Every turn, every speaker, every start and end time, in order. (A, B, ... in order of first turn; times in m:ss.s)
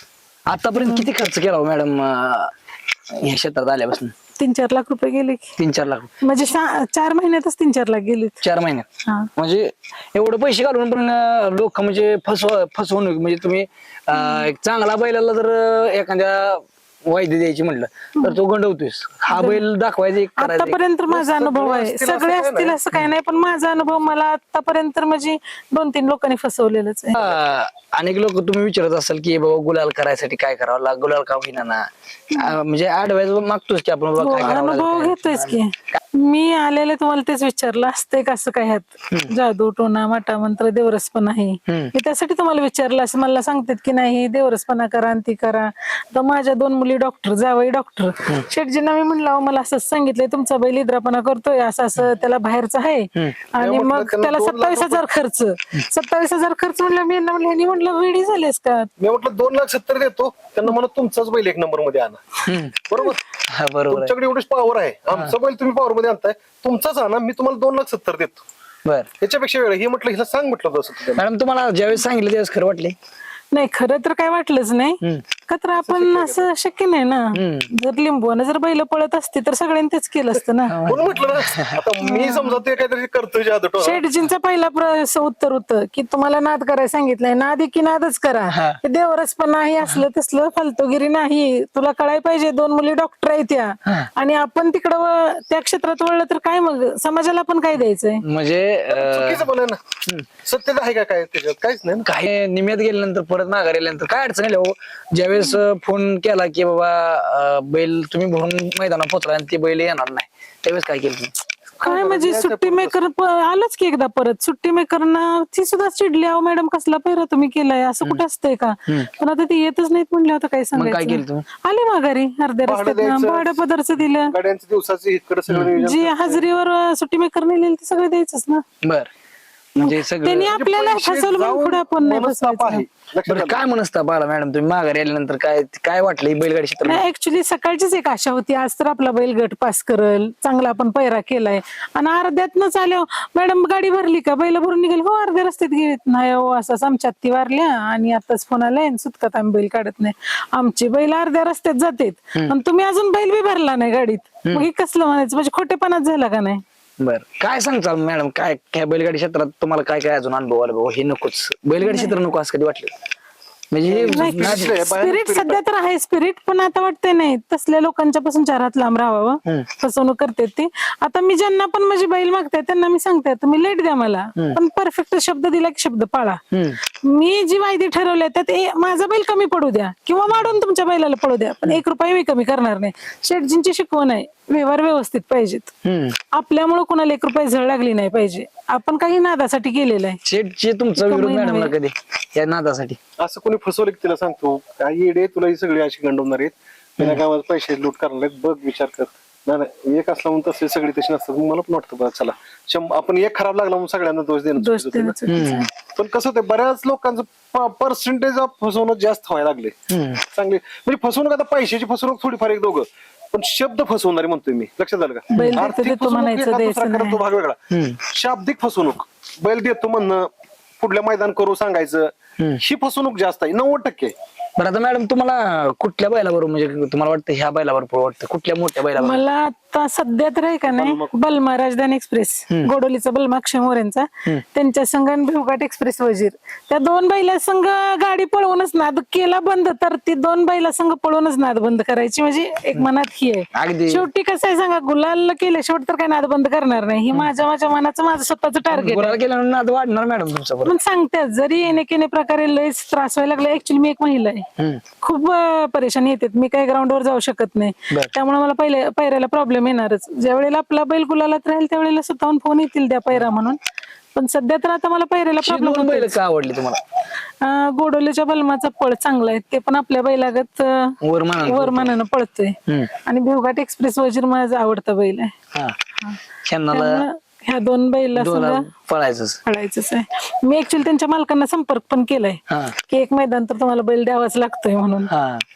0:00.5-0:02.5 A
0:00.8-0:01.1 B
0:03.2-0:04.1 A
0:04.4-0:05.5 B
0:05.6-0:06.1 A
0:06.2-0:08.4 B
0:08.4-0:20.8 A
0:14.1-0:14.5 B
0:19.3-0:19.6 B
0:20.4-0:27.2 B
0:21.1-0:22.8 C
0:27.2-0:35.6 A
0:34.2-0:58.9 B
0:53.6-0:55.0 C
0:59.0-1:03.2 C
1:02.5-1:02.8 A
1:03.5-1:04.1 A
1:03.9-1:08.4 C
1:09.2-1:11.2 C
1:11.2-1:13.0 A
1:13.5-1:20.8 B
1:15.8-1:16.5 C
1:17.4-1:17.7 A
1:20.7-1:21.7 A
1:20.8-1:24.0 C
1:22.0-1:22.6 B
1:23.8-1:38.2 B
1:28.5-1:28.8 A
1:38.2-1:39.5 A
1:38.9-1:39.8 C
1:40.4-1:42.1 C
1:42.0-1:51.3 A
1:51.8-1:53.0 C
1:51.8-2:04.3 B
2:00.8-2:01.5 A
2:02.7-2:03.7 C
2:04.3-2:06.5 C
2:05.8-2:08.6 B
2:08.8-2:09.1 A
2:09.8-2:10.5 A
2:09.8-2:12.8 B
2:10.5-2:13.6 C
2:13.3-2:17.1 A
2:16.8-2:36.6 B
2:37.0-2:42.9 A
2:41.8-2:42.2 B
2:43.7-2:44.7 A
2:43.8-2:45.6 C
2:44.1-3:05.7 B
2:56.5-2:56.8 A
3:05.8-3:06.2 A
3:06.3-3:10.2 B
3:10.2-3:13.0 A
3:11.0-3:11.7 B
3:13.2-3:25.2 C
3:24.6-3:25.7 B
3:25.3-3:25.7 A
3:25.9-3:29.8 C
3:29.9-3:30.2 A
3:30.3-3:40.3 C
3:35.3-3:37.2 B
3:35.3-3:35.6 A
3:37.7-3:38.0 A
3:40.8-3:44.1 C
3:44.6-3:49.2 A
3:49.0-4:09.2 B
3:50.7-3:51.1 C
4:03.5-4:04.1 A
4:08.7-4:10.8 A
4:10.6-4:14.5 B
4:15.0-4:23.6 B
4:24.1-4:26.2 B
4:25.4-4:26.8 A
4:27.4-4:35.3 B
4:31.0-4:31.9 A
4:36.4-4:37.0 A
4:36.7-4:38.7 B
4:38.2-4:39.4 A
4:39.5-4:45.1 B
4:42.5-4:42.8 A
4:45.1-4:45.4 A